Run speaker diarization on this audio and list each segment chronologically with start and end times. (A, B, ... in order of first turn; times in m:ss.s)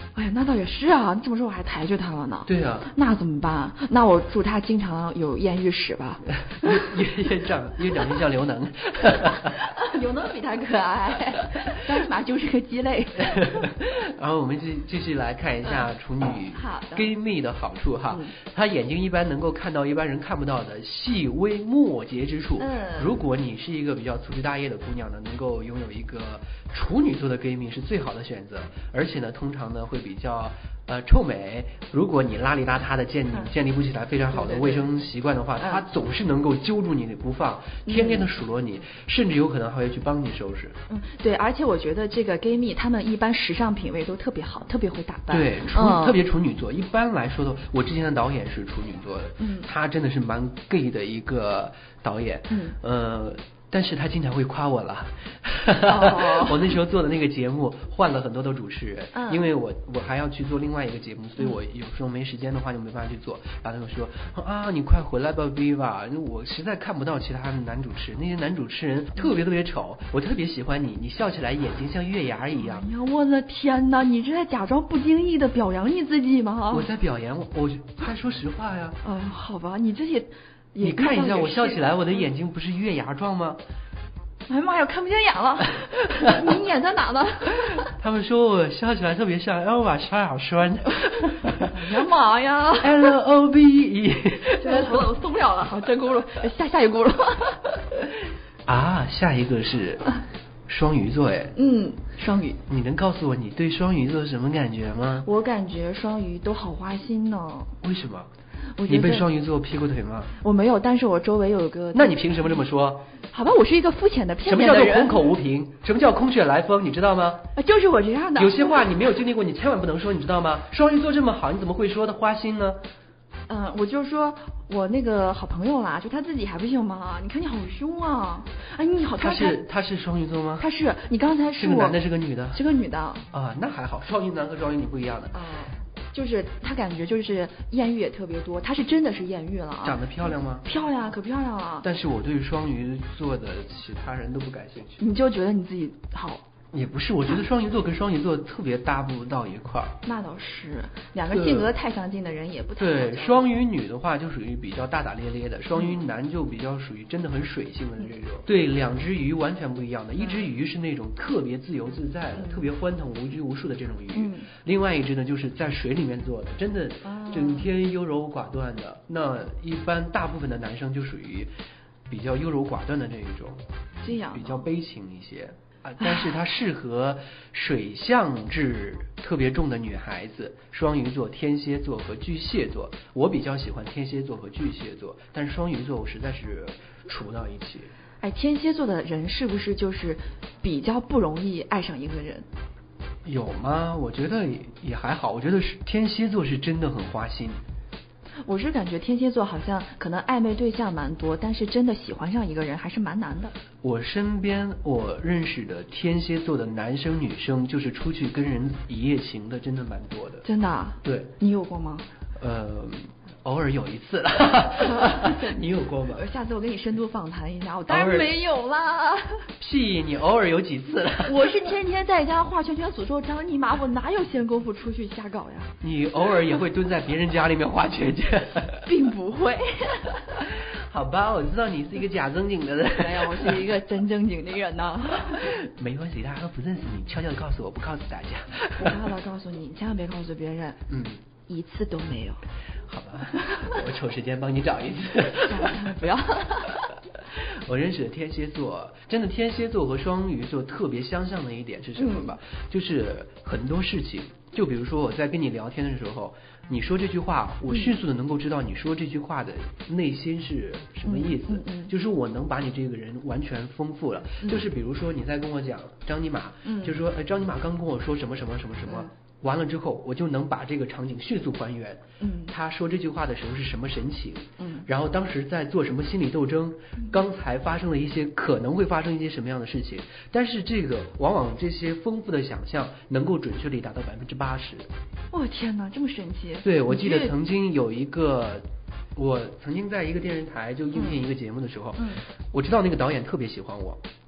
0:00.2-0:06.9 A
0:02.5-0:02.9 B
0:06.4-0:09.6 B
0:09.4-0:13.6 A
0:13.2-0:40.8 B
0:16.5-0:17.1 A
0:22.6-0:23.2 A
0:34.3-0:34.9 A
0:37.9-0:38.3 A
0:40.9-0:46.2 A
0:45.3-1:12.9 B
0:49.4-0:49.7 A
0:52.5-0:52.8 A
0:55.9-0:56.7 A
0:59.1-0:59.5 A
1:12.6-1:16.9 A
1:16.7-1:19.0 B
1:19.0-1:22.3 A
1:20.8-1:23.6 B
1:24.5-1:27.9 A
1:27.7-1:31.8 B
1:31.7-1:33.1 A
1:32.8-1:35.1 B
1:34.6-1:37.8 A
1:38.7-1:41.6 B
1:41.6-1:42.6 A
1:42.7-1:45.3 B
1:45.2-1:47.8 A
1:47.8-1:48.3 B
1:48.8-1:49.3 A
1:48.9-1:50.3 B
1:50.4-1:52.2 A
1:51.9-1:53.1 B
1:53.3-1:55.2 A
1:54.4-1:57.5 B
1:57.6-1:59.0 A
1:58.4-2:02.8 B
2:03.5-2:09.6 A
2:09.2-2:10.7 B
2:10.6-2:12.0 A
2:11.6-2:12.6 B
2:12.5-2:13.2 A
2:13.3-2:15.4 B
2:15.3-2:20.0 A
2:19.8-2:20.7 B
2:20.6-2:21.9 A
2:21.8-2:25.0 B
2:25.0-2:26.4 A
2:26.7-2:30.0 B
2:30.0-2:33.5 A
2:31.3-2:31.7 B
2:32.8-2:51.5 B
2:40.2-2:40.4 A
2:42.4-2:42.6 A
2:44.1-2:44.5 A
2:47.0-2:47.7 A
2:52.1-3:07.9 B
2:54.0-2:54.7 A
3:08.2-3:12.5 A
3:13.2-3:17.6 B
3:18.4-3:23.6 A
3:23.8-3:30.5 B
3:30.4-3:32.1 A
3:31.0-3:31.3 B
3:32.4-3:36.2 B
3:34.8-3:35.6 A
3:36.1-3:39.4 A
3:37.9-3:38.4 B
3:39.6-3:41.6 B
3:41.2-3:45.7 A
3:45.8-3:48.9 B
3:48.8-3:50.4 A
3:50.4-3:53.6 B
3:53.0-3:55.5 A
3:55.3-3:59.0 B
3:58.8-4:00.8 A
4:00.9-4:01.2 B
4:01.5-4:02.4 A
4:02.9-4:05.9 B
4:05.4-4:06.8 A
4:07.3-4:44.9 B
4:12.0-4:12.4 A
4:17.7-4:18.0 A
4:21.1-4:21.9 A
4:24.4-4:24.7 A
4:26.6-4:27.0 A
4:32.2-4:32.5 A
4:34.6-4:34.9 A
4:45.3-4:47.4 A
4:46.6-4:54.0 B
4:51.0-4:51.2 A